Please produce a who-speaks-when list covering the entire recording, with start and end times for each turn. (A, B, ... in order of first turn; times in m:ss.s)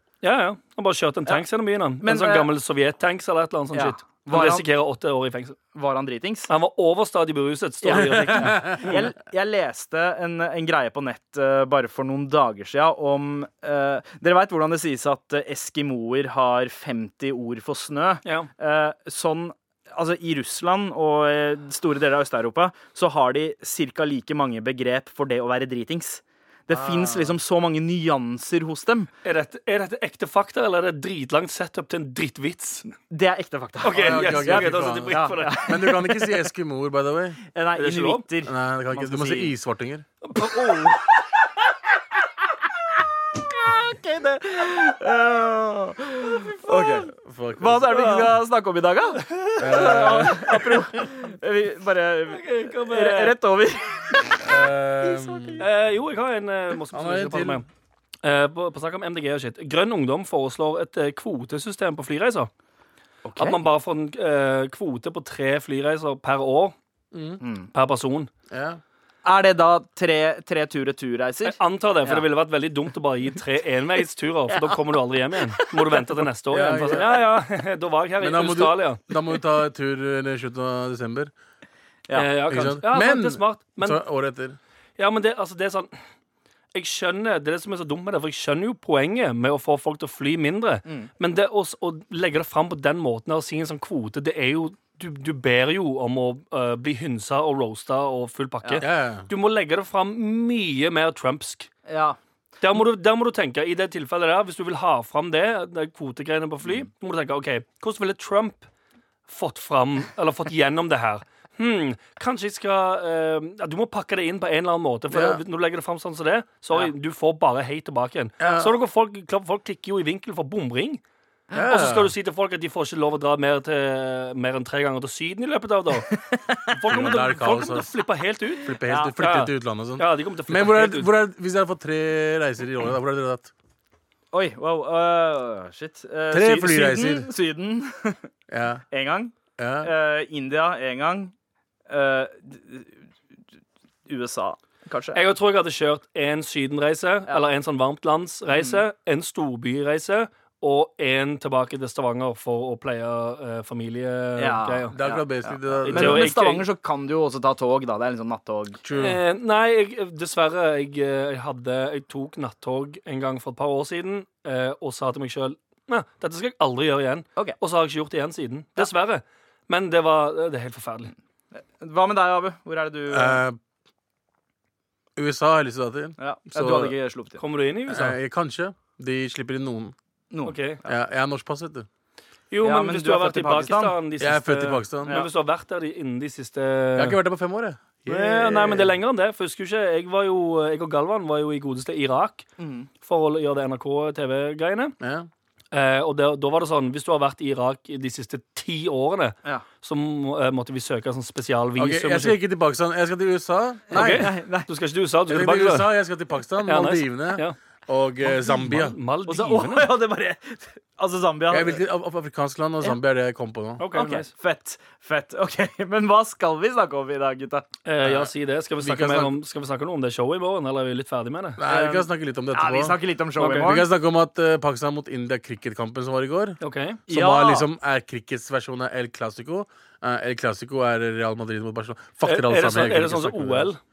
0:00.2-0:05.6 A
0:02.0-0:02.5 B
0:03.7-0:04.6 B
0:05.7-0:06.5 B
0:06.5-0:09.1 A
0:07.8-0:29.1 B
0:08.0-0:08.8 C
0:26.7-0:27.3 C
0:29.2-0:33.0 A
0:33.1-0:36.3 B
0:33.8-0:35.8 A
0:34.0-0:37.4 C
0:37.5-0:39.5 B
0:37.8-0:38.2 A
0:38.4-0:40.0 C
0:40.2-0:41.0 A
0:40.4-0:41.1 B
0:43.5-0:55.6 B
0:47.0-0:48.4 C
0:49.2-0:50.6 A
0:49.6-0:50.5 C
0:52.3-0:53.4 A
0:54.4-0:55.6 C
0:55.6-0:57.6 A
0:56.9-0:57.6 C
0:58.2-1:02.5 A
1:03.2-1:03.6 B
1:03.4-1:06.7 A
1:07.1-1:07.4 C
1:07.4-1:07.7 B
1:07.7-1:08.3 A
1:08.5-1:08.8 C
1:09.2-1:12.2 B
1:11.4-1:19.0 A
1:15.5-1:16.2 B
1:16.5-1:17.1 C
1:18.2-1:21.3 C
1:22.1-1:24.0 A
1:22.5-1:24.6 C
1:25.0-1:25.9 A
1:26.7-1:41.7 A
1:38.8-1:39.3 C
1:41.9-1:42.2 B
1:42.6-1:48.7 A
1:49.3-2:01.0 A
1:55.1-1:55.4 C
1:58.4-1:58.7 C
2:01.5-2:02.1 C
2:01.6-2:11.1 A
2:06.3-2:06.7 B
2:06.9-2:07.9 C
2:08.6-2:13.5 C
2:08.8-2:09.1 B
2:14.3-2:18.3 B
2:16.3-2:17.3 C
2:18.5-2:18.8 C
2:18.9-2:21.3 B
2:19.6-2:19.9 C
2:21.9-2:22.9 B
2:24.0-2:25.2 B
2:25.1-2:34.9 A
2:28.6-2:28.8 B
2:34.4-2:38.8 B
2:34.9-2:36.3 C
2:35.8-2:36.6 A
2:38.8-2:39.2 C
2:38.9-2:51.1 A
2:51.5-2:53.4 B
2:53.1-2:53.6 C
2:55.2-2:56.9 C
2:56.2-2:57.4 B
2:57.4-2:58.2 A
2:57.9-2:59.9 C
3:00.3-3:00.6 B
3:00.4-3:00.8 A
3:00.8-3:01.9 C
3:02.5-3:07.2 A
3:02.6-3:04.0 B
3:04.2-3:05.2 C
3:07.0-3:09.0 C
3:08.0-3:12.5 A
3:12.6-3:12.9 B
3:13.0-3:14.9 A
3:15.0-3:15.3 C
3:15.7-3:22.4 A
3:21.8-3:24.3 C
3:23.9-3:24.7 B
3:23.9-3:25.9 A
3:25.3-3:29.0 C
3:26.6-3:27.6 A
3:28.2-3:29.9 A
3:29.3-3:31.8 B
3:31.5-3:33.8 C
3:33.8-3:34.3 A
3:33.9-3:37.6 B
3:37.8-3:41.6 A
3:38.8-3:39.4 C
3:41.6-3:43.0 C
3:41.6-3:43.9 B
3:43.4-3:43.8 A
3:43.6-3:53.7 C
3:46.6-3:47.0 A
3:47.1-3:47.7 B
3:52.2-3:53.8 A